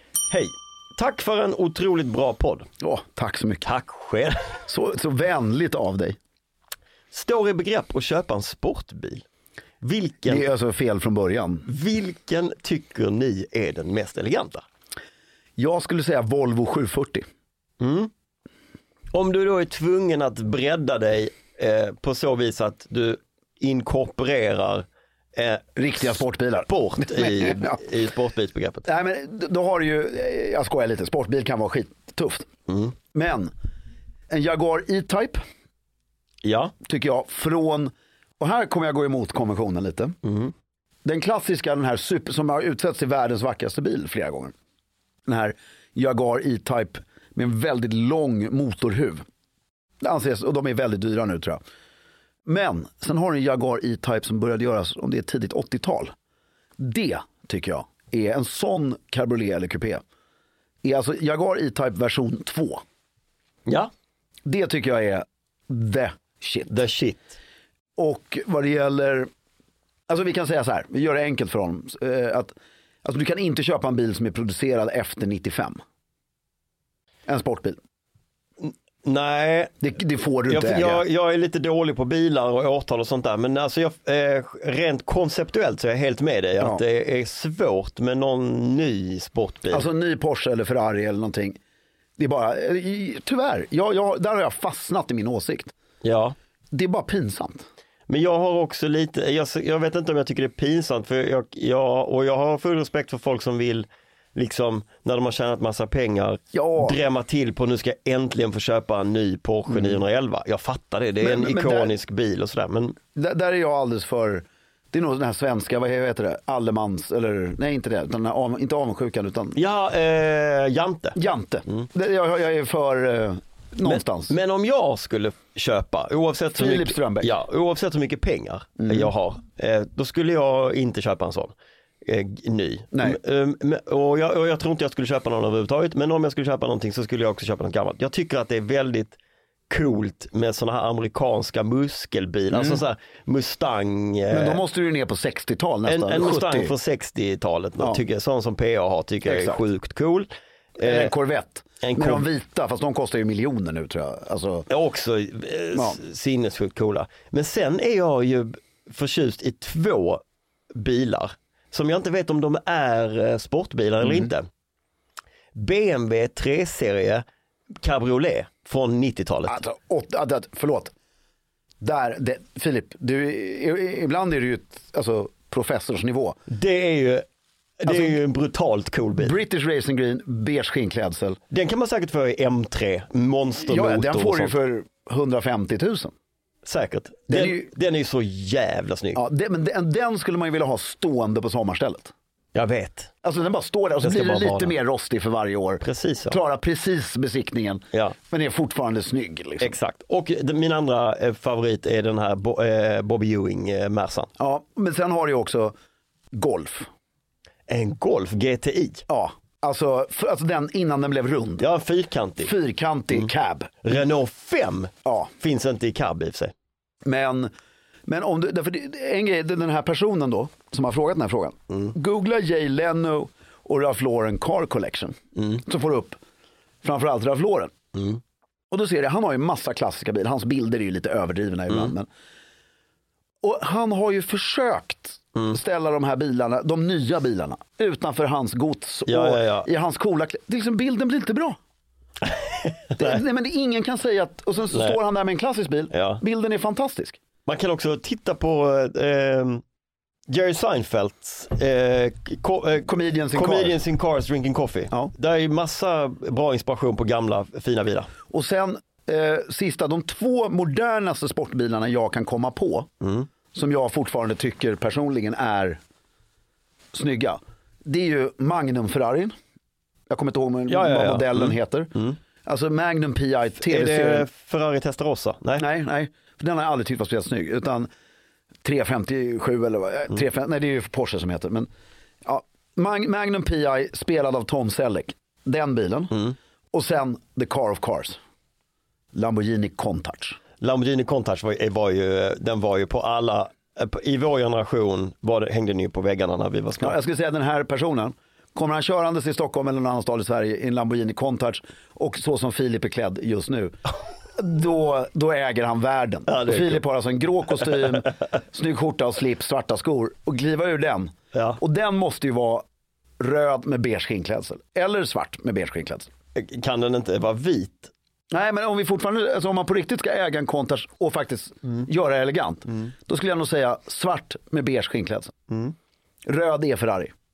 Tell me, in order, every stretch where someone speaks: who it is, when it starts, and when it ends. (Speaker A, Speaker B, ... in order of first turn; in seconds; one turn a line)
Speaker A: 0.3-2.7
Speaker B: 2.8-3.7
Speaker A: 3.6-4.3
Speaker B: 4.6-6.2
Speaker A: 7.1-9.2
Speaker A: 9.8-10.5
Speaker B: 10.2-11.7
Speaker A: 11.7-14.6
Speaker B: 15.6-17.2
Speaker A: 17.8-18.1
Speaker A: 19.1-26.2
Speaker B: 25.8-27.8
Speaker A: 26.7-28.9
Speaker B: 28.9-32.5
Speaker A: 32.7-32.9
Speaker B: 33.1-33.5
Speaker B: 34.3-35.4
Speaker A: 36.4-36.7
Speaker B: 36.8-40.2
Speaker A: 40.2-40.5
Speaker B: 41.0-44.5
Speaker B: 45.3-49.2
Speaker B: 50.0-51.6
Speaker B: 52.5-56.1
Speaker B: 56.8-60.0
Speaker B: 60.8-62.8
Speaker B: 64.5-66.7
Speaker A: 66.7-67.3
Speaker B: 68.0-69.3
Speaker B: 70.1-75.8
Speaker B: 77.3-77.8
Speaker A: 78.6-79.8
Speaker B: 79.8-81.0
Speaker A: 80.5-89.9
Speaker B: 89.7-91.6
Speaker B: 92.2-95.7
Speaker A: 96.0-96.3
Speaker B: 96.7-97.7
Speaker A: 98.1-113.0
Speaker B: 106.5-107.0
Speaker B: 109.7-110.0
Speaker B: 111.2-112.0
Speaker B: 113.2-119.6
Speaker A: 119.5-121.2
Speaker B: 121.2-124.4
Speaker A: 123.8-131.5
Speaker B: 126.5-127.3
Speaker B: 128.8-129.1
Speaker A: 132.1-139.2
Speaker B: 132.9-133.2
Speaker A: 139.7-144.6
Speaker B: 142.5-142.8
Speaker B: 144.3-146.7
Speaker A: 145.9-151.1
Speaker B: 149.3-149.6
Speaker B: 150.8-154.7
Speaker A: 151.8-152.2
Speaker A: 154.7-160.2
Speaker B: 155.7-156.0
Speaker A: 160.8-164.5
Speaker B: 164.0-164.3
Speaker A: 165.6-167.2
Speaker A: 167.8-169.6
Speaker B: 169.5-170.9
Speaker B: 171.8-176.4
Speaker A: 176.5-177.3
Speaker A: 177.8-179.4
Speaker B: 177.9-178.2
Speaker B: 179.2-181.4
Speaker A: 181.5-184.6
Speaker B: 183.6-186.1
Speaker A: 186.7-189.2
Speaker B: 187.3-187.7
Speaker B: 189.2-192.1
Speaker A: 192.6-193.1
Speaker B: 193.2-199.8
Speaker A: 194.0-194.8
Speaker A: 195.8-196.4
Speaker A: 199.6-204.3
Speaker B: 204.4-205.8
Speaker B: 206.3-206.9
Speaker A: 207.7-209.0
Speaker B: 209.1-211.7
Speaker A: 211.6-212.5
Speaker B: 212.4-213.9
Speaker A: 213.8-216.5
Speaker B: 215.1-215.3
Speaker B: 217.1-217.5
Speaker B: 218.1-226.2
Speaker A: 225.4-225.6
Speaker B: 226.8-227.7
Speaker A: 227.9-228.2
Speaker B: 228.7-232.1
Speaker B: 233.4-241.6
Speaker A: 239.1-239.7
Speaker A: 242.2-243.2
Speaker B: 243.0-247.2
Speaker A: 244.7-245.0
Speaker A: 245.9-246.2
Speaker A: 247.5-249.6
Speaker A: 250.3-258.1
Speaker B: 252.8-253.8
Speaker B: 258.3-262.9
Speaker A: 263.0-263.3
Speaker B: 263.5-265.8
Speaker B: 266.9-269.3
Speaker B: 270.1-274.3
Speaker A: 270.7-272.2
Speaker A: 273.6-275.6
Speaker B: 275.6-277.9
Speaker B: 278.6-281.7
Speaker B: 282.2-288.2
Speaker B: 289.1-290.4
Speaker A: 290.6-297.0
Speaker B: 296.8-303.8
Speaker B: 304.3-312.6
Speaker A: 306.3-306.8
Speaker A: 311.3-311.6
Speaker B: 313.2-316.1
Speaker A: 316.4-317.9
Speaker B: 318.3-325.3
Speaker A: 325.5-325.8
Speaker B: 326.2-327.1